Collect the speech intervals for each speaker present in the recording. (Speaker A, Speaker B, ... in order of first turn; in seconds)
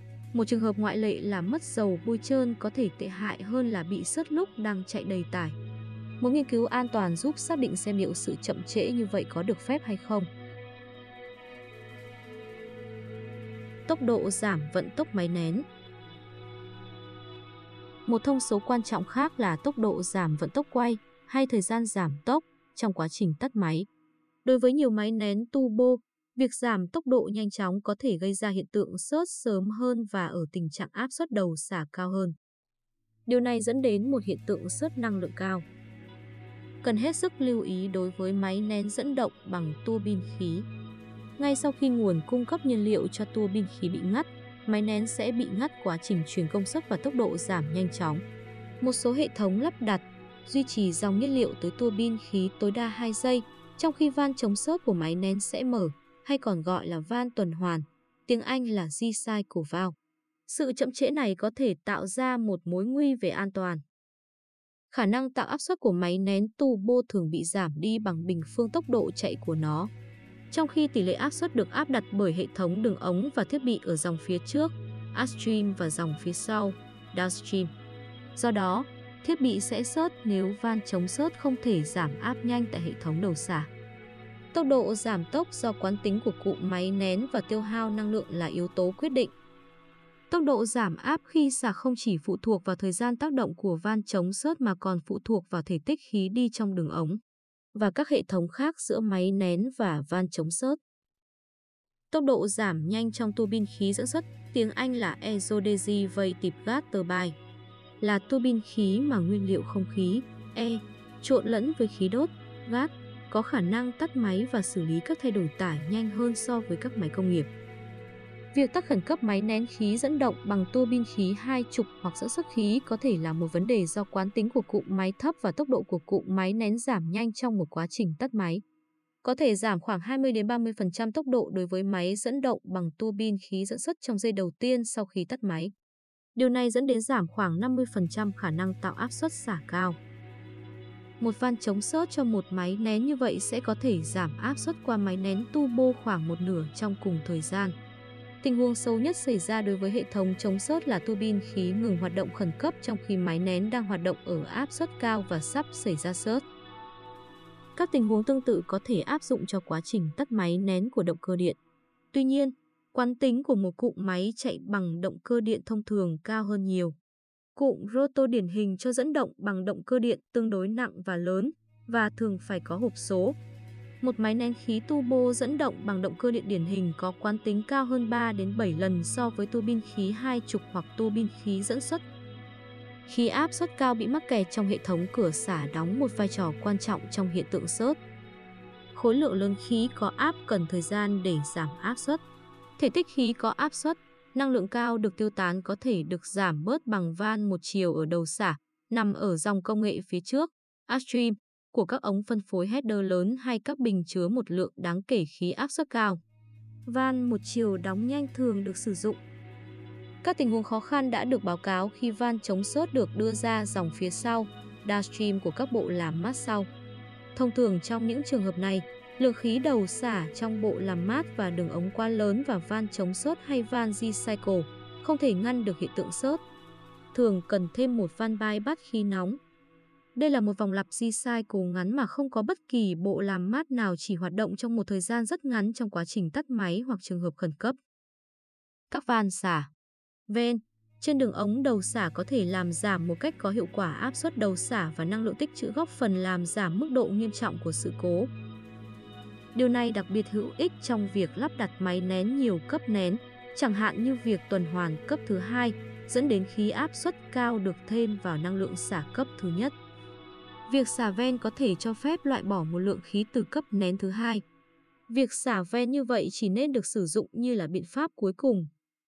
Speaker A: 0.3-5.6, 6.2-10.3, 13.9-15.6, 18.1-23.9, 24.4-32.3, 33.2-35.6, 36.8-40.7, 41.4-48.2, 48.8-59.9, 60.5-63.8, 64.9-69.9, 70.5-77.7, 78.3-83.7, 84.5-89.3, 90.3-97.2, 97.7-100.8, 102.1-107.3, 108.0-117.5, 118.5-128.6, 129.2-135.7, 136.3-140.0, 141.2-147.7, 148.4-156.4, 157.8-161.6, 162.1-166.9, 167.5-173.3, 174.0-182.0, 183.1-188.0, 188.9-192.2, 192.8-206.2, 206.8-209.2, 210.2-216.7, 217.3-226.4, 227.1-229.4, 230.1-237.8, 238.9-239.7, 240.3-248.3, 249.5-259.7, 260.7-264.4, 265.1-268.7